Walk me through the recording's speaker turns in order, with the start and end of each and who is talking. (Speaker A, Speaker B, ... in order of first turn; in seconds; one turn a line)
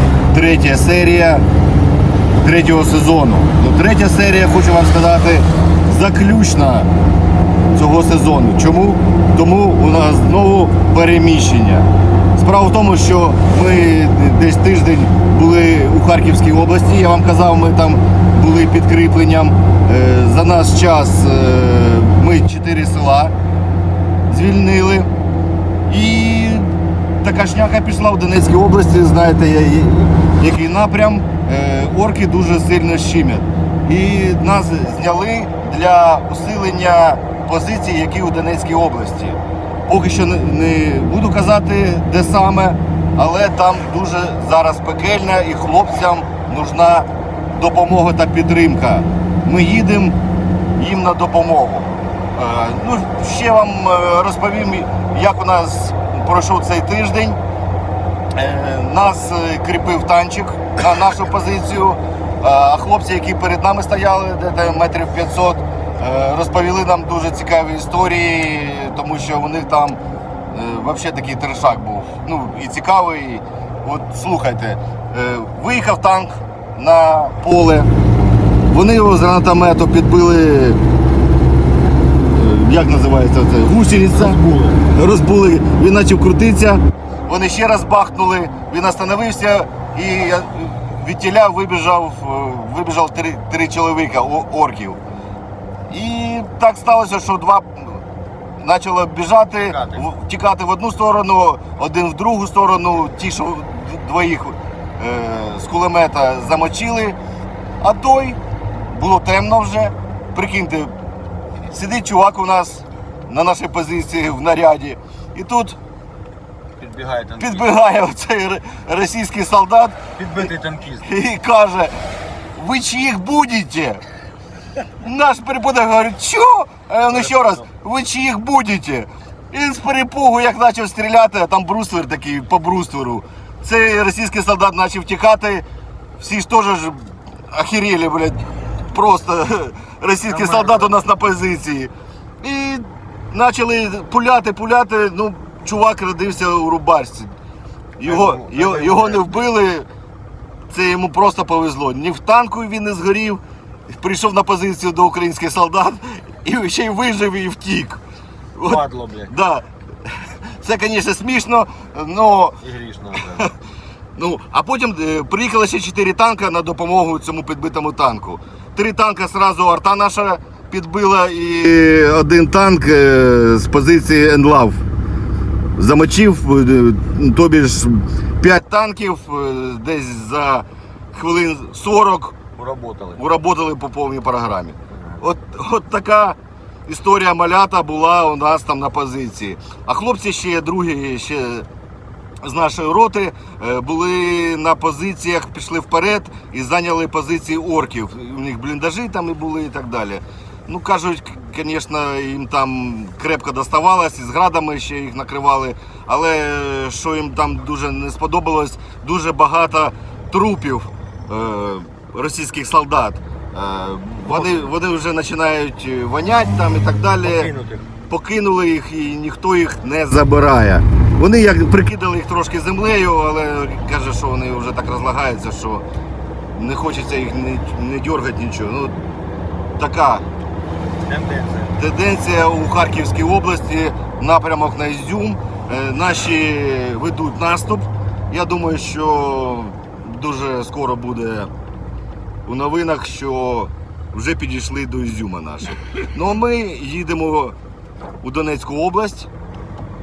Speaker A: 0.3-1.4
Speaker A: 2.4-6.9
Speaker A: 7.7-23.3
Speaker A: 24.3-25.1
Speaker A: 25.9-50.2
Speaker A: 50.8-57.4
Speaker A: 58.3-77.9
Speaker A: 78.7-80.8
Speaker A: 82.2-95.0
Speaker B: 84.1-84.8
Speaker A: 95.9-98.0
Speaker A: 98.6-107.2
Speaker B: 99.6-100.0
Speaker A: 107.8-110.9
Speaker A: 111.7-115.8
Speaker B: 116.8-117.7
Speaker A: 117.4-120.0
Speaker B: 120.1-121.1
Speaker A: 121.0-122.0
Speaker A: 122.5-124.0
Speaker A: 125.0-135.6
Speaker A: 136.2-147.3
Speaker B: 140.2-140.9
Speaker A: 148.0-149.9
Speaker B: 148.0-149.5
Speaker A: 150.7-158.0
Speaker A: 158.6-162.6
Speaker B: 158.6-159.3
Speaker B: 162.6-163.5
Speaker A: 164.2-174.8
Speaker A: 175.8-182.4
Speaker B: 182.6-183.2
Speaker A: 183.2-191.7
Speaker B: 184.9-185.2
Speaker A: 192.4-217.5
Speaker B: 214.3-214.7
Speaker B: 217.2-217.9
Speaker A: 218.1-225.8
Speaker A: 226.5-228.9
Speaker A: 229.8-230.2
Speaker B: 231.0-231.7
Speaker A: 231.7-241.5
Speaker A: 242.4-247.5
Speaker A: 248.2-249.3